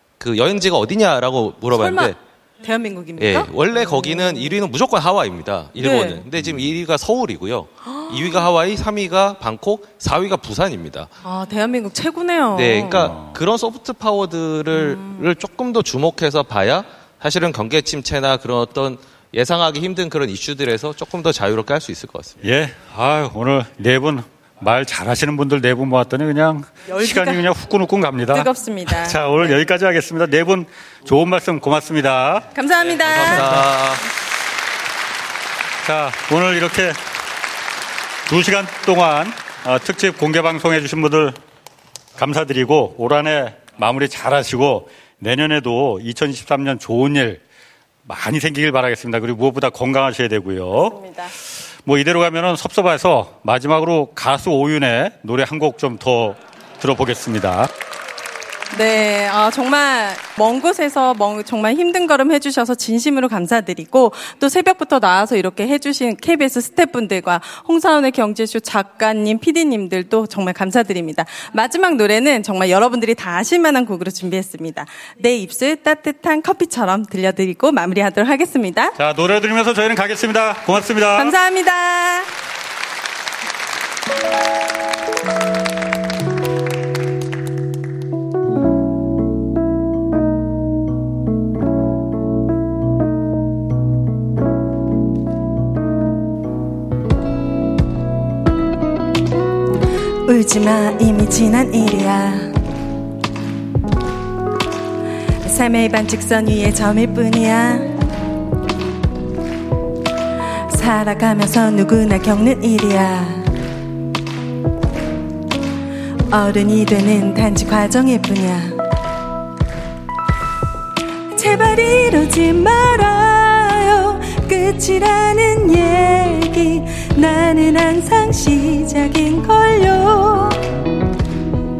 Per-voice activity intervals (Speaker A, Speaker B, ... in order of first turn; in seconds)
Speaker A: 0.2-2.2, 3.2-11.1, 12.5-22.4, 33.1-34.0
Speaker B: 1.7-4.4, 5.8-6.2, 7.9-8.4, 11.2-13.2, 14.7-15.3, 26.9-27.4, 28.3-29.5, 32.5-33.8, 50.9-51.3, 58.7-79.0, 81.1-82.3, 100.2-102.6, 105.4-107.9, 110.7-113.5, 116.3-118.8, 121.3-130.6
Speaker C: 6.4-6.7, 12.9-13.3, 22.4-32.5, 33.0-33.7, 35.8-37.0, 38.3-41.4, 42.2-47.4, 48.0-50.9, 51.8-57.7, 79.0-81.3